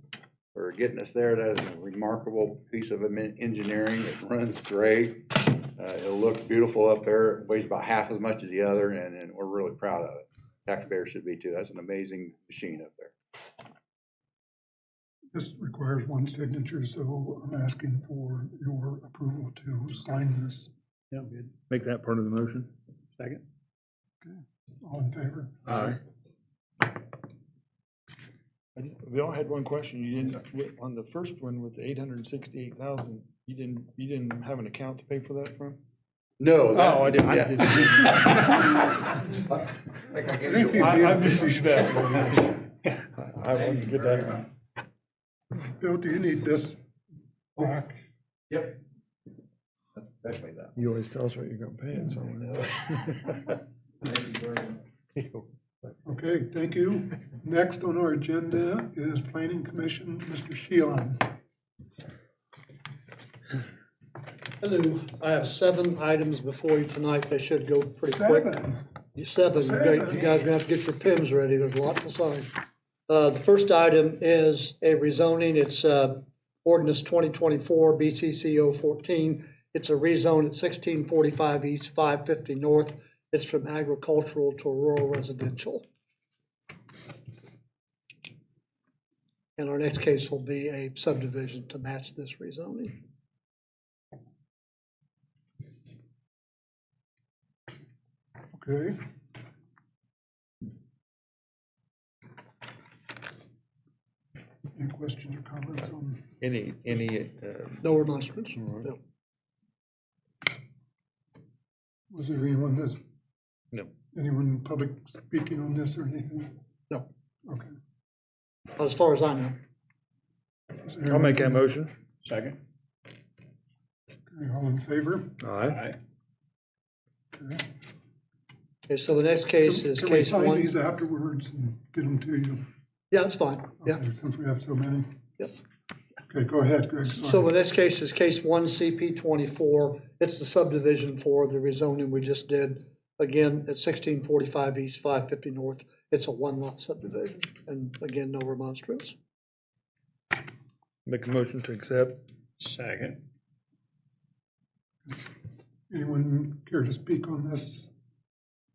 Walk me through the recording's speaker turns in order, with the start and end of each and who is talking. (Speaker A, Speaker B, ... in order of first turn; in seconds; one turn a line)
Speaker A: 0.5-13.2
Speaker B: 15.3-20.7
Speaker C: 21.1-21.5
Speaker D: 21.7-22.7
Speaker C: 23.2-23.4
Speaker B: 24.2-25.7
Speaker D: 25.7-26.0
Speaker D: 28.8-35.8
Speaker A: 36.4-38.4
Speaker D: 36.7-38.9
Speaker A: 39.3-41.4
Speaker B: 40.5-42.4
Speaker D: 40.7-44.4
Speaker A: 43.5-44.5
Speaker B: 45.6-46.8
Speaker B: 47.6-48.0
Speaker A: 48.5-48.8
Speaker A: 50.0-50.8
Speaker D: 50.8-53.5
Speaker A: 54.1-54.6
Speaker D: 55.1-55.5
Speaker B: 56.0-61.3
Speaker E: 64.6-68.5
Speaker B: 68.1-68.8
Speaker E: 69.2-72.5
Speaker B: 69.6-70.3
Speaker E: 73.1-85.8
Speaker E: 89.6-93.0
Speaker B: 98.6-99.0
Speaker B: 104.8-106.3
Speaker D: 106.4-107.9
Speaker E: 107.8-109.0
Speaker B: 112.1-113.0
Speaker B: 114.1-116.5
Speaker B: 117.5-117.7
Speaker E: 118.8-119.6
Speaker B: 120.8-121.6
Speaker D: 121.1-121.9
Speaker C: 122.2-122.6
Speaker B: 124.3-125.4
Speaker D: 125.4-125.8
Speaker C: 125.7-126.0
Speaker B: 127.4-127.7
Speaker E: 128.9-130.7
Speaker B: 129.6-132.6
Speaker E: 133.1-134.0
Speaker B: 133.8-135.1
Speaker B: 136.3-137.5
Speaker E: 137.1-149.2
Speaker D: 151.1-152.2
Speaker C: 152.6-153.2
Speaker B: 155.9-157.9